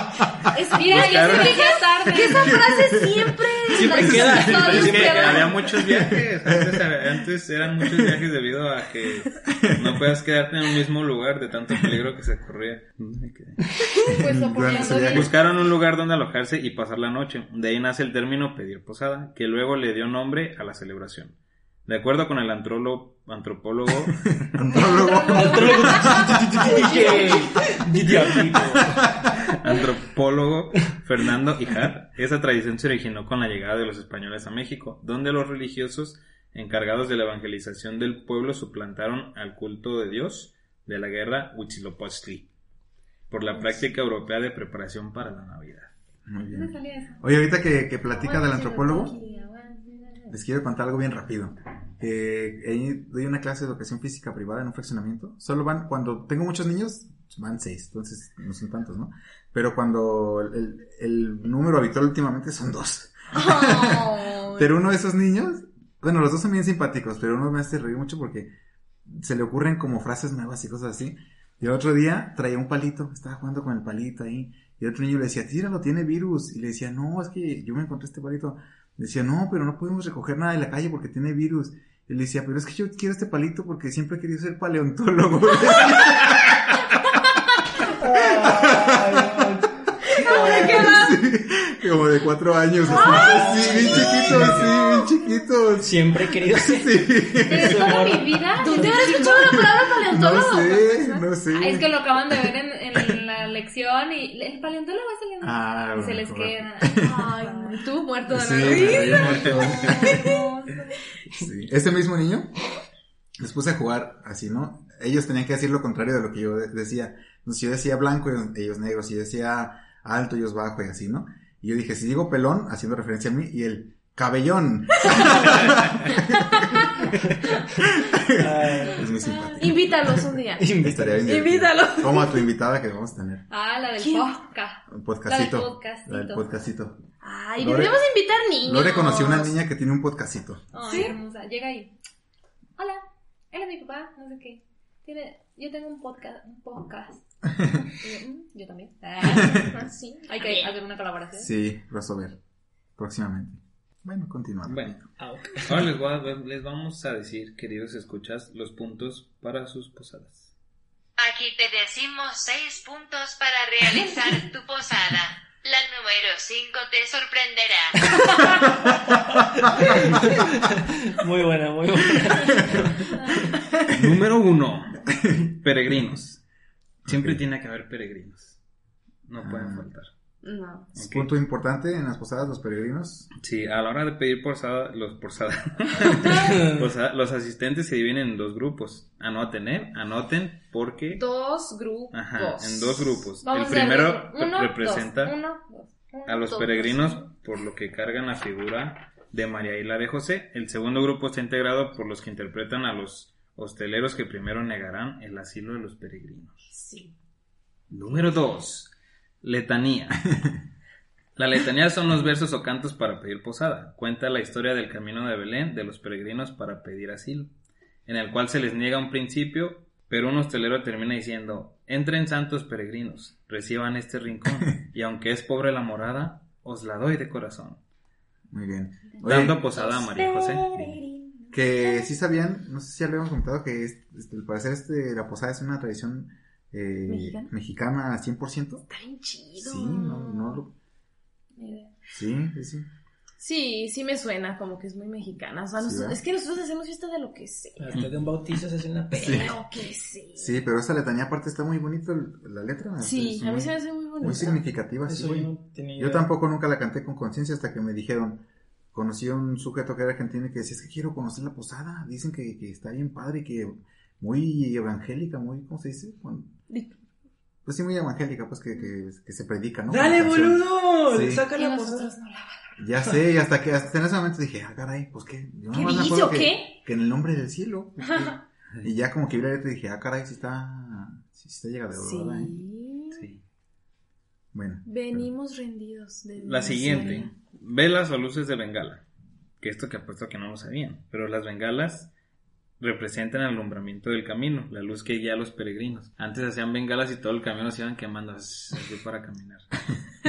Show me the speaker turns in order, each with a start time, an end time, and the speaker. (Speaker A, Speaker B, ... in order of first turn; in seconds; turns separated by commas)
Speaker A: 0.5-2.6, Speaker B: 0.5-4.7, Speaker C: 0.9-1.8, Speaker D: 2.3-5.0, Speaker E: 3.7-5.5, Speaker A: 3.8-5.7, Speaker C: 4.5-13.7, Speaker D: 5.6-7.2, Speaker D: 7.8-8.2, Speaker D: 9.4-10.1, Speaker A: 14.1-15.3, Speaker D: 14.1-15.3, Speaker C: 14.8-24.5, Speaker D: 24.4-26.6, Speaker A: 24.7-27.5, Speaker E: 25.3-29.2, Speaker B: 26.7-27.4, Speaker C: 29.4-42.5, Speaker C: 43.3-45.9, Speaker D: 46.3-49.1, Speaker A: 46.5-47.2, Speaker A: 48.2-50.3, Speaker B: 48.3-49.4, Speaker D: 50.3-68.5, Speaker B: 63.3-64.7, Speaker D: 69.1-86.6, Speaker E: 87.8-90.9, Speaker D: 88.0-89.5, Speaker B: 90.0-91.2, Speaker D: 90.2-98.0, Speaker B: 92.9-95.2, Speaker A: 92.9-94.0, Speaker E: 93.0-94.7, Speaker E: 95.8-99.1, Speaker A: 97.5-99.7, Speaker B: 98.6-101.3, Speaker D: 99.0-103.2, Speaker A: 101.5-107.9, Speaker D: 105.4-107.3, Speaker B: 107.0-110.4, Speaker D: 108.3-110.3, Speaker A: 108.4-111.0, Speaker D: 111.3-112.5, Speaker D: 113.4-133.5, Speaker B: 125.0-127.0, Speaker E: 127.2-127.6, Speaker E: 128.3-129.1, Speaker A: 129.1-129.7, Speaker B: 129.6-132.5, Speaker E: 130.6-131.5, Speaker A: 133.5-136.4, Speaker B: 134.0-134.4, Speaker D: 134.9-137.1, Speaker B: 137.2-139.6, Speaker D: 137.6-138.1, Speaker D: 138.6-140.7, Speaker A: 140.7-141.9, Speaker B: 140.9-141.2, Speaker A: 142.8-147.2, Speaker A: 148.0-151.5, Speaker D: 149.2-149.9, Speaker B: 149.3-150.7, Speaker D: 151.4-152.4, Speaker D: 153.0-155.0, Speaker C: 154.7-155.0, Speaker E: 155.2-155.9, Speaker C: 155.6-160.5, Speaker F: 161.2-168.1, Speaker E: 169.6-173.6, Speaker D: 169.6-170.4, Speaker D: 172.2-172.9, Speaker A: 173.1-173.4, Speaker C: 173.8-176.4, Speaker D: 175.1-175.4, Speaker D: 177.1-177.4, Speaker C: 177.1-178.6, Speaker C: 179.3-180.1, Speaker D: 179.4-179.9, Speaker B: 180.4-180.9, Speaker C: 180.9-181.3, Speaker D: 181.0-183.3, Speaker C: 183.4-191.2, Speaker E: 186.2-186.9, Speaker B: 191.1-193.1, Speaker C: 192.1-195.3, Speaker A: 193.4-197.0, Speaker C: 196.3-206.7, Speaker B: 206.7-207.1, Speaker C: 207.9-210.4, Speaker C: 211.4-217.5, Speaker C: 218.1-227.8, Speaker D: 228.5-229.6, Speaker C: 229.2-231.0, Speaker B: 229.7-232.1, Speaker D: 231.5-238.9, Speaker B: 237.1-237.5, Speaker B: 238.9-240.6, Speaker D: 239.6-240.7, Speaker A: 241.6-241.9, Speaker D: 242.1-242.9, Speaker B: 243.4-248.1, Speaker D: 245.8-246.2, Speaker E: 247.8-249.5, Speaker B: 249.1-250.6, Speaker D: 249.2-249.5, Speaker D: 250.4-266.5, Speaker B: 253.0-254.6, Speaker E: 255.1-256.3, Speaker B: 266.7-266.9, Speaker D: 267.6-271.5, Speaker E: 269.9-272.1, Speaker A: 271.5-272.8, Speaker D: 272.8-282.6, Speaker B: 275.7-276.8, Speaker B: 282.0-283.2, Speaker C: 283.1-283.4, Speaker D: 284.5-285.3, Speaker B: 284.9-287.3, Speaker C: 286.4-289.0, Speaker C: 289.6-292.1, Speaker C: 292.8-299.9